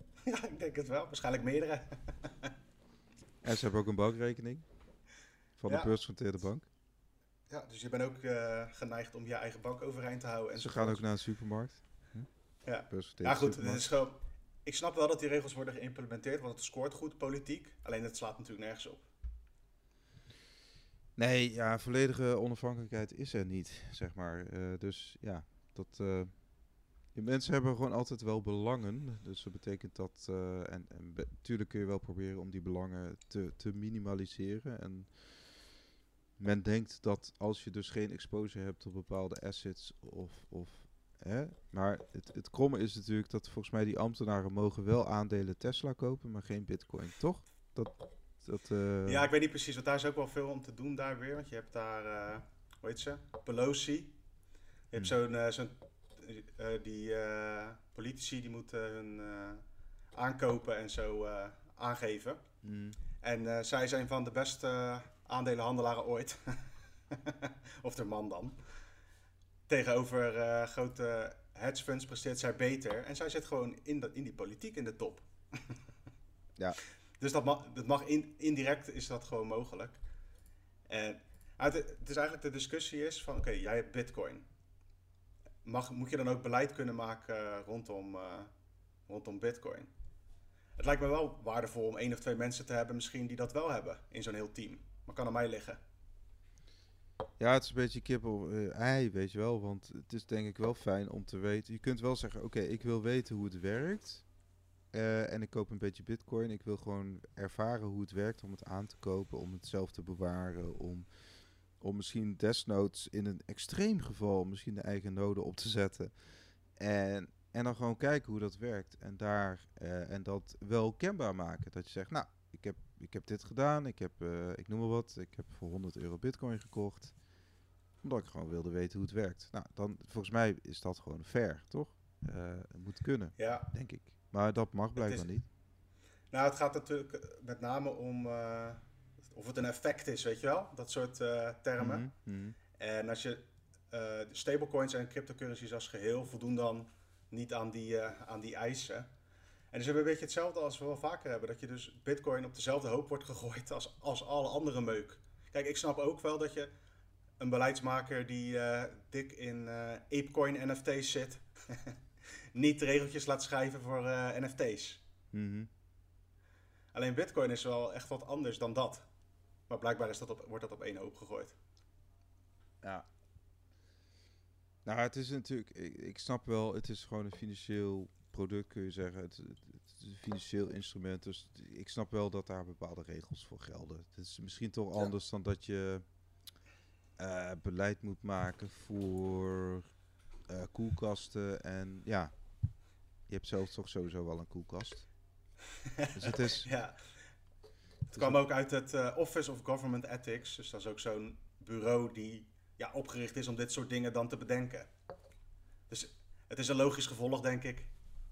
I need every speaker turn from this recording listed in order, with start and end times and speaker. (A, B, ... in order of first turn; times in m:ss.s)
0:00.2-0:02.5 A
0:03.4-0:04.6 B
0:05.6-0:06.6 B
0:05.7-0:05.9 A
0:07.5-0:11.0 A
0:10.6-0:12.3 B
0:12.6-0:19.1 A
0:12.9-0:13.8 B
0:21.2-0:26.4 B
0:27.1-0:35.4 B
0:36.4-0:49.3 B
0:49.0-0:54.2 A
0:54.9-1:02.4 A
1:02.6-1:03.0 B
1:03.2-1:08.6 A
1:09.7-1:15.8 A
1:17.2-1:20.0 A
1:20.9-1:24.5 A
1:25.6-1:28.5 A
1:29.1-1:29.9 A
1:30.8-1:35.8 A
1:37.4-1:44.2 B
1:44.9-1:51.1 B
1:51.8-1:56.2 B
1:56.8-2:07.1 B
2:08.0-2:15.4 B
2:13.4-2:13.7 A
2:15.0-2:15.3 A
2:16.3-2:22.1 A
2:21.8-2:22.6 B
2:22.7-2:29.1 A
2:29.7-2:36.7 A
2:37.4-2:42.0 A
2:42.5-2:45.0 A
2:45.3-2:45.7 B
2:46.9-2:49.0 A
2:49.7-2:51.6 A
2:54.8-3:06.0 B
3:07.2-3:09.9 B
3:10.5-3:12.3 B
3:13.3-3:15.1 B
3:15.7-3:17.1 A
3:16.1-3:16.7 B
3:18.1-3:24.9 A
3:18.1-3:18.4 B
3:25.9-3:27.9 A